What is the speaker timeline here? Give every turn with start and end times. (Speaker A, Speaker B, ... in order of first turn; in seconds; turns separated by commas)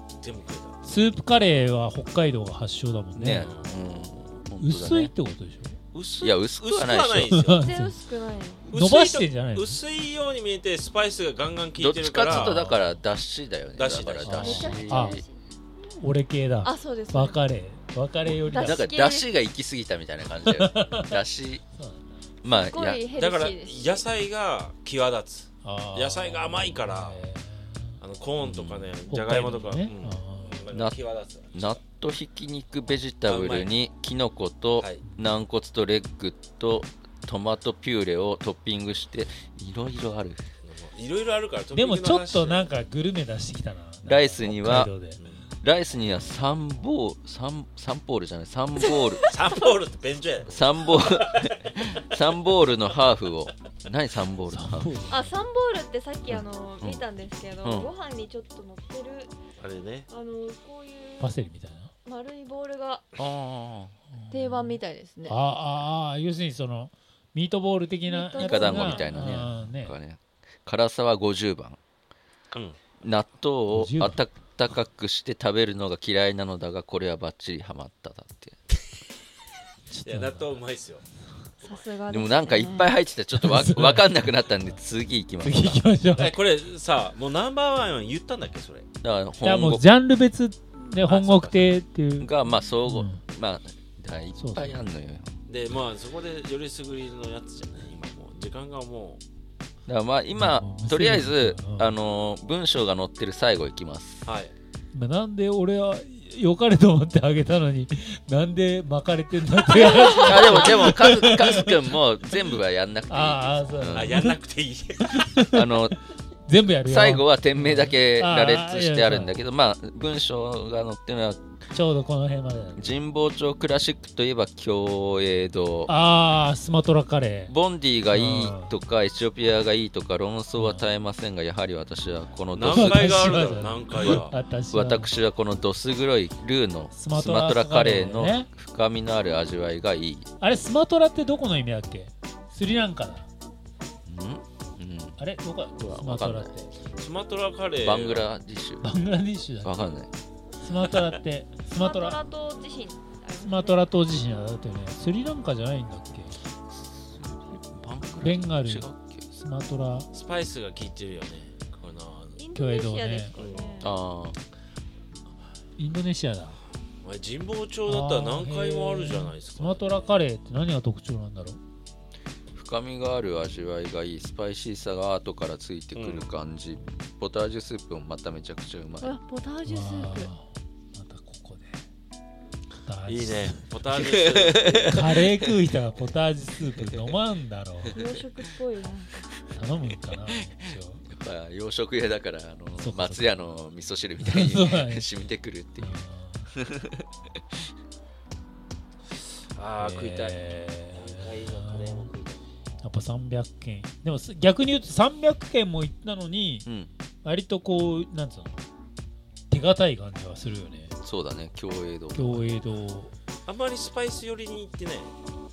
Speaker A: 0.2-0.8, Speaker B: 0.8-3.5, Speaker C: 3.2-5.1, Speaker A: 3.3-3.7, Speaker B: 4.6-5.8, Speaker A: 5.9-7.7, Speaker C: 6.2-7.3, Speaker B: 7.3-8.0, Speaker D: 7.6-8.7, Speaker A: 8.7-12.7, Speaker B: 8.7-9.8, Speaker C: 11.8-15.2, Speaker B: 12.3-13.0, Speaker A: 13.8-14.8, Speaker B: 14.2-15.2, Speaker D: 14.4-15.4, Speaker B: 16.0-18.9, Speaker D: 16.6-17.4, Speaker D: 18.4-19.3, Speaker C: 18.6-21.6, Speaker B: 20.5-21.2, Speaker B: 21.8-22.2, Speaker C: 22.4-23.0, Speaker D: 22.5-24.1, Speaker A: 23.1-27.2, Speaker B: 25.6-28.0, Speaker A: 28.0-31.8, Speaker C: 28.4-28.9, Speaker B: 29.1-30.7, Speaker C: 30.7-31.0, Speaker C: 31.5-40.4, Speaker A: 33.2-33.7, Speaker A: 40.6-42.7, Speaker B: 41.7-45.2, Speaker C: 44.0-44.9, Speaker C: 45.6-49.3, Speaker D: 48.9-49.4, Speaker A: 49.3-51.5, Speaker C: 50.5-54.9, Speaker B: 54.5-55.3, Speaker D: 55.1-59.3, Speaker C: 56.3-57.0, Speaker C: 57.6-57.9, Speaker A: 59.6-60.1, Speaker D: 60.1-61.3, Speaker B: 61.2-61.9, Speaker D: 62.0-63.1, Speaker C: 63.2-63.9, Speaker B: 64.1-70.0, Speaker D: 64.3-65.4, Speaker D: 68.1-69.4, Speaker C: 68.4-71.8, Speaker A: 72.5-72.8, Speaker C: 73.0-78.6, Speaker B: 73.7-74.2, Speaker B: 79.9-80.6, Speaker A: 80.0-81.0, Speaker D: 81.6-83.0, Speaker C: 82.1-85.8, Speaker B: 83.4-84.2, Speaker B: 85.4-86.4, Speaker A: 86.2-88.9, Speaker C: 89.0-89.8, Speaker B: 89.4-92.3, Speaker A: 91.0-91.7, Speaker C: 92.2-95.3, Speaker B: 92.8-93.2, Speaker B: 94.4-94.8, Speaker A: 95.5-99.2, Speaker C: 99.9-104.3, Speaker B: 100.4-102.0, Speaker A: 104.2-104.5, Speaker B: 104.9-111.8, Speaker D: 109.8-110.8, Speaker C: 109.9-114.2, Speaker B: 113.1-114.4, Speaker A: 113.9-115.3, Speaker B: 115.0-115.9, Speaker C: 115.5-116.0, Speaker B: 116.5-119.3, Speaker C: 116.8-121.4, Speaker B: 121.7-122.9, Speaker C: 122.8-125.9, Speaker B: 125.9-127.5, Speaker C: 127.5-133.5, Speaker B: 128.1-128.7, Speaker B: 130.6-130.9, Speaker A: 132.5-134.3, Speaker B: 132.7-135.1, Speaker C: 134.0-140.3, Speaker B: 136.9-138.5, Speaker B: 140.4-143.3, Speaker C: 144.1-145.2, Speaker B: 145.2-146.7, Speaker C: 145.8-146.5, Speaker A: 147.0-148.3, Speaker C: 147.8-148.9, Speaker B: 148.8-149.9, Speaker C: 149.6-150.1, Speaker B: 150.6-152.2, Speaker D: 151.8-153.9, Speaker B: 153.4-156.3, Speaker C: 156.7-159.2, Speaker B: 158.2-160.1, Speaker A: 160.1-162.4, Speaker D: 162.4-163.9, Speaker B: 162.6-163.3, Speaker A: 163.3-163.8, Speaker C: 163.8-164.4, Speaker B: 165.8-166.6, Speaker A: 167.0-169.9, Speaker B: 167.9-171.6, Speaker C: 172.5-179.2, Speaker A: 175.9-176.3, Speaker D: 179.0-180.3, Speaker B: 179.7-181.8, Speaker B: 182.8-183.7, Speaker A: 183.1-185.2, Speaker C: 183.9-185.2, Speaker B: 184.9-188.0, Speaker D: 187.9-189.3, Speaker B: 189.5-191.0, Speaker C: 191.1-196.0, Speaker B: 192.8-193.2, Speaker B: 194.2-195.1, Speaker B: 195.8-196.5, Speaker C: 196.5-197.6, Speaker A: 199.5-202.4, Speaker B: 199.8-202.1, Speaker B: 202.8-206.7, Speaker B: 207.2-208.6, Speaker B: 209.5-210.9, Speaker C: 211.0-212.6, Speaker B: 212.2-213.1, Speaker A: 213.5-215.1